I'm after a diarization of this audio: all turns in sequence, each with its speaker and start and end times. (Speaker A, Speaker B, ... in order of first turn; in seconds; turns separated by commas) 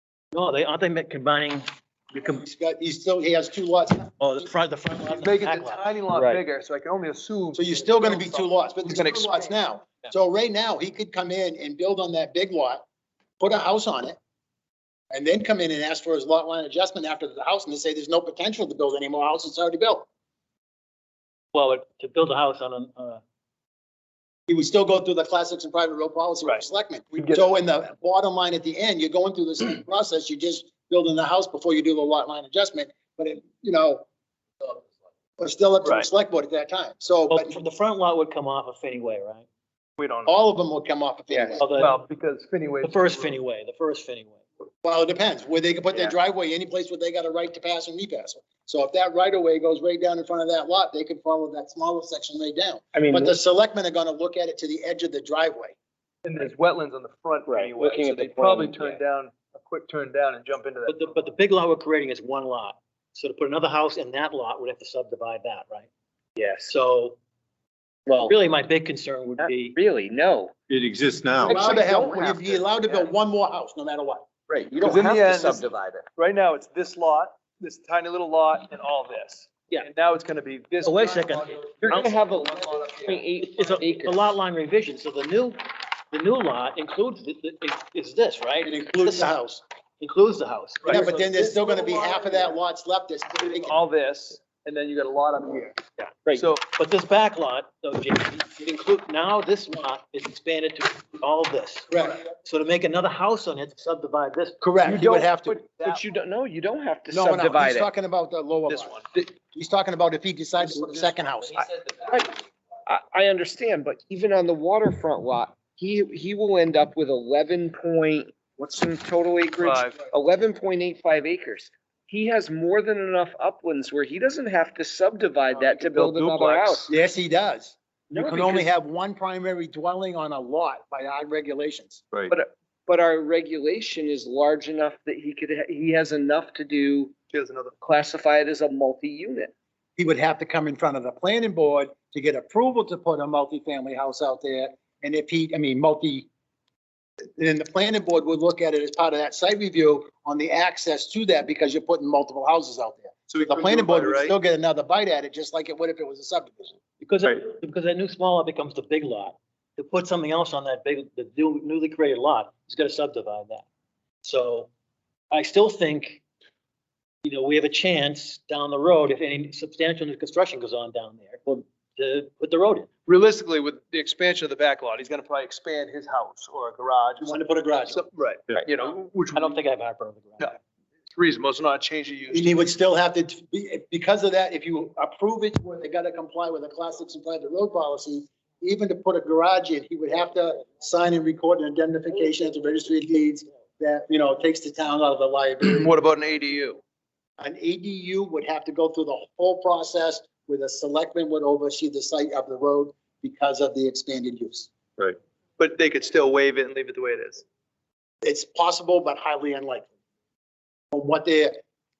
Speaker A: 0.3-1.6, Speaker B: 2.1-4.5, Speaker A: 4.2-5.8, Speaker C: 5.1-9.6, Speaker D: 6.1-6.4, Speaker B: 7.5-12.8, Speaker B: 13.4-14.2, Speaker B: 15.1-20.1, Speaker A: 21.5-23.2, Speaker B: 24.5-34.0, Speaker C: 27.1-27.5, Speaker B: 35.4-37.5, Speaker C: 35.8-36.1, Speaker A: 37.3-39.5, Speaker C: 40.0-40.3, Speaker B: 40.2-41.6, Speaker D: 41.3-41.6, Speaker A: 41.6-42.0, Speaker C: 41.8-43.4, Speaker A: 42.8-44.4, Speaker B: 44.8-55.7, Speaker D: 52.9-53.4, Speaker C: 56.2-61.1, Speaker D: 57.5-59.0, Speaker A: 60.9-65.9, Speaker D: 66.4-66.7, Speaker A: 66.7-67.2, Speaker D: 68.1-68.3, Speaker A: 68.2-69.8, Speaker D: 69.4-70.5, Speaker E: 70.7-71.7, Speaker D: 71.4-73.1, Speaker B: 71.4-74.3, Speaker D: 74.5-76.1, Speaker C: 74.8-83.6, Speaker A: 80.8-82.1, Speaker D: 81.9-84.3, Speaker A: 83.4-85.6, Speaker A: 86.1-89.3, Speaker B: 88.6-89.6, Speaker A: 90.0-91.1, Speaker C: 90.8-92.5, Speaker B: 90.9-93.8, Speaker C: 93.3-95.8, Speaker C: 96.3-96.6, Speaker A: 96.7-101.9, Speaker B: 101.9-102.2, Speaker A: 102.4-104.7, Speaker B: 104.6-105.6, Speaker D: 104.8-107.9, Speaker B: 107.1-111.7, Speaker C: 108.7-109.1, Speaker A: 110.6-112.5, Speaker D: 112.1-112.3, Speaker D: 112.8-126.9, Speaker C: 119.6-120.0, Speaker E: 125.6-126.8, Speaker B: 126.9-132.0, Speaker D: 128.1-128.7, Speaker D: 132.3-137.1, Speaker C: 137.3-137.7, Speaker D: 137.8-139.5, Speaker B: 140.0-146.3, Speaker B: 147.4-156.8, Speaker C: 153.3-154.3, Speaker A: 157.0-163.6, Speaker A: 164.2-164.7, Speaker A: 165.3-166.2, Speaker A: 167.2-172.9, Speaker C: 173.1-179.6, Speaker B: 177.2-178.0, Speaker A: 179.3-180.6, Speaker C: 181.1-182.7, Speaker B: 182.3-195.9, Speaker C: 195.6-196.8, Speaker B: 197.4-204.7, Speaker C: 205.6-207.4, Speaker B: 208.2-209.9, Speaker B: 210.9-211.6